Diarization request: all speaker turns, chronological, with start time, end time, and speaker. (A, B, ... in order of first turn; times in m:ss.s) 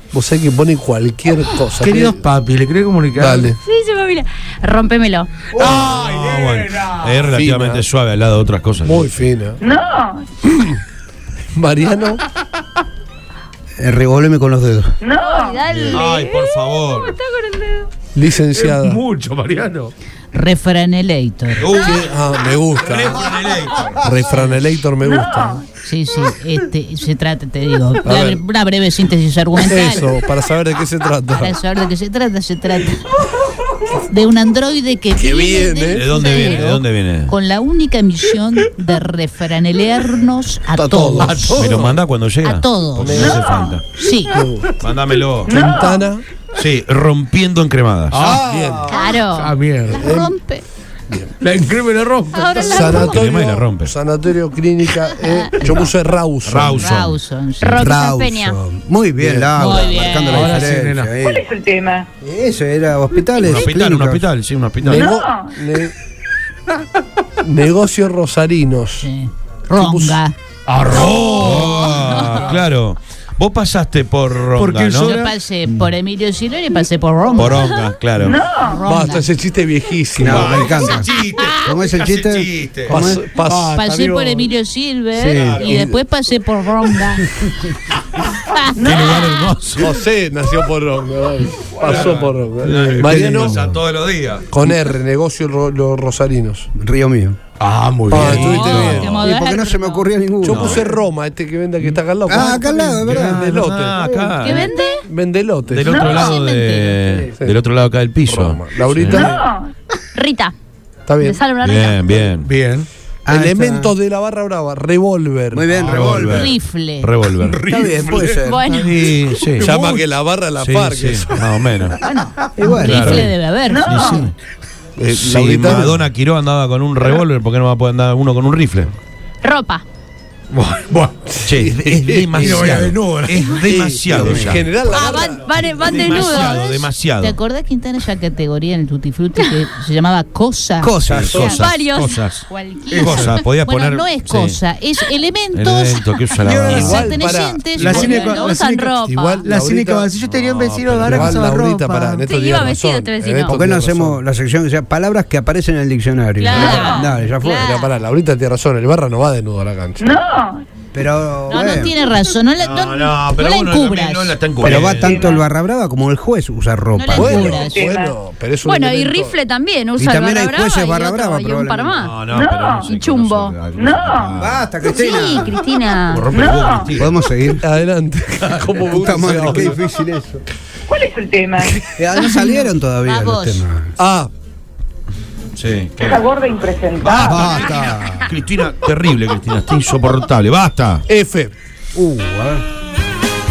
0:00.1-0:02.3 A
0:01.8-0:03.5 B
0:03.2-0:03.6 A
0:03.5-0:05.4 C
0:05.6-0:07.3 B
0:05.6-0:09.2 D
0:07.3-0:07.8 A
0:08.8-0:09.6 A
0:09.6-0:10.3 E
0:10.5-0:10.8 A
0:11.5-0:12.2 A
0:13.8-0:14.9 F
0:15.0-0:15.7 E
0:15.1-0:17.9 C
0:15.7-0:17.2 D
0:18.1-0:19.0 A
0:18.5-0:19.9 B
0:20.3-0:21.7 G
0:21.6-0:22.1 D
0:21.8-0:23.3 A
0:22.8-0:24.5 D
0:24.0-0:25.6 A
0:24.3-0:24.5 G
0:25.0-0:25.6 E
0:25.8-0:30.1 G
0:28.0-0:28.4 A
0:29.6-0:31.6 A
0:31.3-0:33.1 G
0:33.9-0:41.6 G
0:35.1-0:36.2 A
0:35.9-0:37.3 D
0:36.1-0:36.6 C
0:40.8-0:42.0 A
0:41.2-0:41.7 B
0:41.6-0:43.9 D
0:42.4-0:43.4 G
0:43.1-0:43.4 A
0:43.4-0:43.8 E
0:43.9-0:44.4 G
0:44.3-0:44.8 A
0:44.8-0:45.7 D
0:45.5-0:46.2 A
0:45.5-0:46.1 E
0:46.5-0:48.4 D
0:48.1-0:50.0 B
0:48.2-0:48.5 F
0:48.4-0:48.9 A
0:48.8-0:49.6 C
0:49.9-0:50.4 A
0:49.9-0:50.6 G
0:51.4-0:52.9 B
0:52.3-0:53.4 C
0:52.7-0:56.9 A
0:52.8-0:54.0 D
0:56.4-0:57.2 D
0:56.8-0:57.9 G
0:57.6-0:58.6 C
0:57.6-1:01.4 F
0:59.2-0:59.6 A
0:59.6-1:00.6 G
1:00.3-1:01.1 B
1:01.2-1:02.1 E
1:02.2-1:04.3 F
1:03.4-1:05.1 D
1:04.8-1:05.9 A
1:04.9-1:05.6 E
1:07.4-1:09.1 A
1:09.0-1:10.4 G
1:09.8-1:10.2 A
1:10.7-1:12.6 B
1:10.9-1:15.2 D
1:14.6-1:15.3 B
1:15.0-1:17.7 G
1:17.4-1:18.4 D
1:17.5-1:17.8 C
1:18.3-1:18.9 E
1:18.3-1:19.3 G
1:18.8-1:20.4 A
1:20.2-1:23.2 F
1:20.2-1:20.7 D
1:20.3-1:22.1 B
1:20.8-1:21.7 G
1:22.1-1:23.0 D
1:22.9-1:23.7 A
1:23.1-1:24.5 B
1:23.7-1:27.6 G
1:25.1-1:25.7 F
1:25.3-1:25.9 D
1:25.6-1:26.0 A
1:28.3-1:29.1 G
1:28.8-1:30.0 D
1:28.8-1:29.6 E
1:29.8-1:33.7 A
1:31.7-1:32.4 B
1:31.8-1:34.5 D
1:33.3-1:33.8 F
1:34.5-1:36.7 A
1:36.8-1:37.4 F
1:37.6-1:38.6 B
1:38.1-1:39.2 A
1:38.1-1:39.3 D
1:38.3-1:40.0 G
1:38.8-1:40.9 F
1:40.4-1:44.0 A
1:40.4-1:40.9 D
1:42.3-1:44.4 F
1:43.0-1:44.7 D
1:44.4-1:45.1 G
1:44.5-1:45.0 C
1:45.0-1:46.0 A
1:45.6-1:49.3 D
1:45.9-1:46.2 E
1:45.9-1:47.2 G
1:48.2-1:49.4 A
1:49.1-1:49.6 E
1:50.2-1:50.6 C
1:51.1-1:51.4 A
1:51.2-1:52.3 C
1:51.6-1:52.5 D
1:52.4-1:52.9 B
1:53.3-1:54.0 F
1:53.3-1:55.8 A
1:55.5-1:56.5 F
1:55.8-1:56.4 B
1:55.8-1:57.6 D
1:56.3-1:57.1 G
1:57.4-1:58.4 B
1:57.7-1:58.7 F
1:58.4-1:58.9 C
1:58.7-1:59.8 D
1:59.3-2:00.2 B
1:59.6-2:01.4 A
2:00.6-2:02.0 D
2:02.0-2:04.3 G
2:02.6-2:03.3 F
2:02.8-2:03.3 D
2:03.7-2:04.3 E
2:03.9-2:04.3 D
2:05.0-2:06.0 A
2:05.1-2:08.9 D
2:09.4-2:09.8 C
2:10.5-2:11.3 B
2:11.3-2:12.7 A
2:11.4-2:17.4 D
2:12.4-2:13.5 B
2:13.6-2:15.5 A
2:14.1-2:14.6 F
2:14.9-2:16.9 C
2:16.1-2:16.5 G
2:17.2-2:20.9 G
2:20.8-2:21.4 F
2:21.0-2:24.6 D
2:21.3-2:23.3 C
2:22.9-2:23.3 B
2:22.9-2:26.1 G
2:25.5-2:27.2 D
2:26.4-2:32.3 B
2:26.6-2:28.4 G
2:26.7-2:27.8 A
2:27.8-2:29.5 C
2:29.1-2:30.3 A
2:30.3-2:31.3 D
2:31.0-2:34.2 A
2:32.1-2:33.6 C
2:33.5-2:37.8 F
2:36.4-2:37.9 G
2:36.5-2:36.8 C
2:36.6-2:37.1 E
2:37.5-2:40.2 A
2:40.0-2:40.6 E
2:40.9-2:41.9 F
2:41.5-2:44.4 G
2:42.6-2:45.3 D
2:44.6-2:47.7 F
2:44.7-2:45.4 E
2:46.9-2:47.8 G
2:47.2-2:49.4 A
2:47.6-2:48.2 E
2:48.6-2:52.3 C
2:50.0-2:52.0 F
2:52.0-2:54.7 D
2:52.3-2:52.9 E
2:52.8-2:53.6 C
2:53.7-2:54.4 E
2:54.4-2:55.6 F
2:54.8-2:56.3 C
2:56.1-2:57.3 D
2:56.3-2:56.9 E
2:57.0-2:57.6 F
2:57.6-2:59.8 A
2:58.9-3:00.4 F
3:00.9-3:01.7 E
3:01.6-3:01.9 A
3:02.0-3:03.9 F
3:02.2-3:03.6 G
3:04.0-3:04.3 A
3:05.6-3:06.3 D
3:06.0-3:07.5 E
3:07.0-3:11.0 D
3:07.2-3:08.3 F
3:11.1-3:11.5 A
3:12.0-3:12.6 F